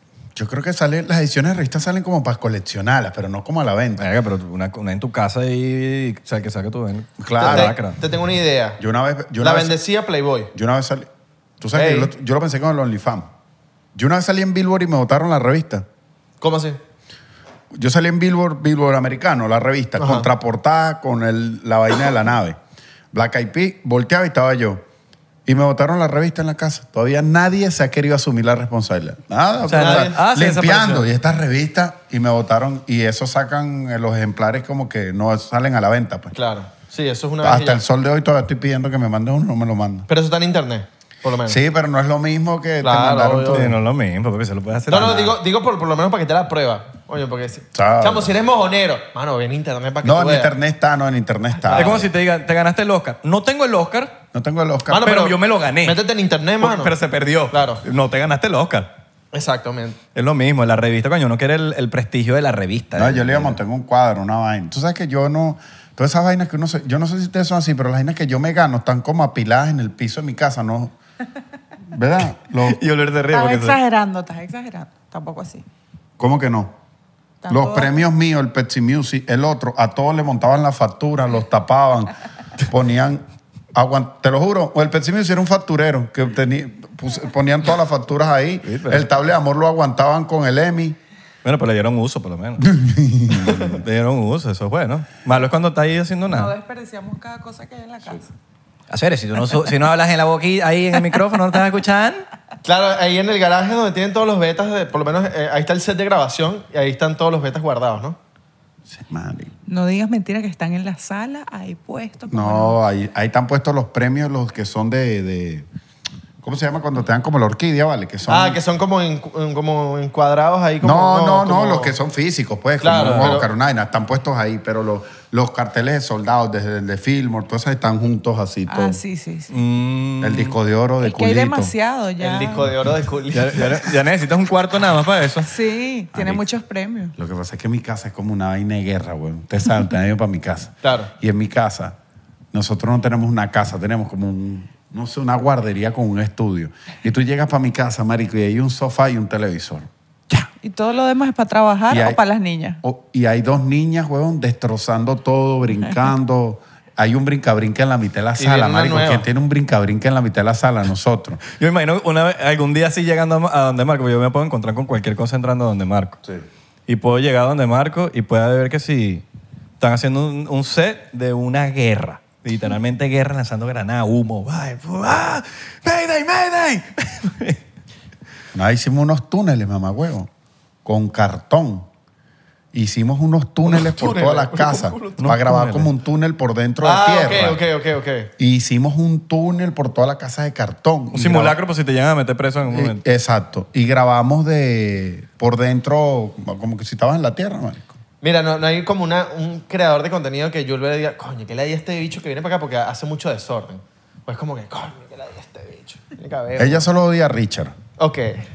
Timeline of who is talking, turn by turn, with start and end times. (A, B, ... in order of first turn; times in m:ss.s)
0:00.4-0:04.0 A
0:04.0-0:08.0 B
0:07.2-0:07.8 A
0:07.4-0:08.8 C
0:08.8-0:09.8 A
0:09.4-0:10.5 C
0:10.5-0:11.1 A
0:11.6-0:13.3 A
0:11.7-0:12.1 C
0:14.0-0:15.9 A
0:16.4-0:16.8 C
0:17.7-0:22.6 A
0:20.0-0:20.3 C
0:23.1-0:24.8 A
0:25.5-0:36.4 A
0:29.7-0:31.1 B
0:29.7-0:30.2 C
0:36.3-0:37.8 C
0:37.4-0:40.1 A
0:40.1-0:41.6 C
0:41.5-0:43.8 A
0:42.8-0:43.8 C
0:43.5-0:45.3 B
0:44.9-0:50.5 C
0:44.9-0:45.3 A
0:47.7-0:48.4 A
0:50.0-0:52.1 A
0:51.6-0:52.1 C
0:51.7-0:54.2 B
0:54.3-0:55.1 A
0:54.9-0:57.0 C
0:55.0-0:56.0 B
0:56.6-0:58.9 B
0:57.5-0:57.8 C
0:59.3-1:00.0 C
1:00.2-1:03.6 B
1:03.0-1:11.0 A
1:11.9-1:12.8 A
1:12.6-1:13.8 B
1:13.3-1:15.6 D
1:16.2-1:16.7 A
1:17.4-1:17.9 D
1:17.5-1:31.0 A
1:28.6-1:29.1 B
1:31.4-1:32.7 B
1:32.6-1:33.8 A
1:33.5-1:36.5 B
1:36.3-1:38.3 D
1:38.9-1:42.2 B
1:42.6-1:48.2 C
1:48.9-1:49.5 A
1:49.7-1:52.8 D
1:52.3-1:55.7 A
1:56.4-1:58.6 A
1:58.3-2:01.9 C
2:00.8-2:09.0 A
2:02.8-2:03.5 C
2:02.9-2:03.4 B
2:08.7-2:09.5 D
2:09.5-2:10.6 B
2:10.2-2:11.7 A
2:11.0-2:12.7 D
2:12.2-2:13.9 C
2:13.3-2:15.5 B
2:15.4-2:17.1 D
2:16.1-2:16.4 A
2:17.2-2:22.0 A
2:20.8-2:21.1 C
2:22.5-2:30.5 A
2:30.6-2:32.8 D
2:31.9-2:32.2 A
2:32.8-2:41.4 A
2:38.4-2:39.3 C
2:41.5-2:46.2 B
2:46.9-2:49.2 B
2:49.8-2:57.6 B
2:58.5-3:00.3 A
3:00.8-3:01.9 A
3:02.7-3:07.6 A
3:03.7-3:05.2 C
3:05.2-3:05.9 B
3:06.8-3:08.3 C
3:08.4-3:11.6 A
3:11.1-3:13.0 B
3:12.7-3:18.0 A
3:18.2-3:26.9 C
3:26.6-3:27.8 A
3:28.0-3:28.4 C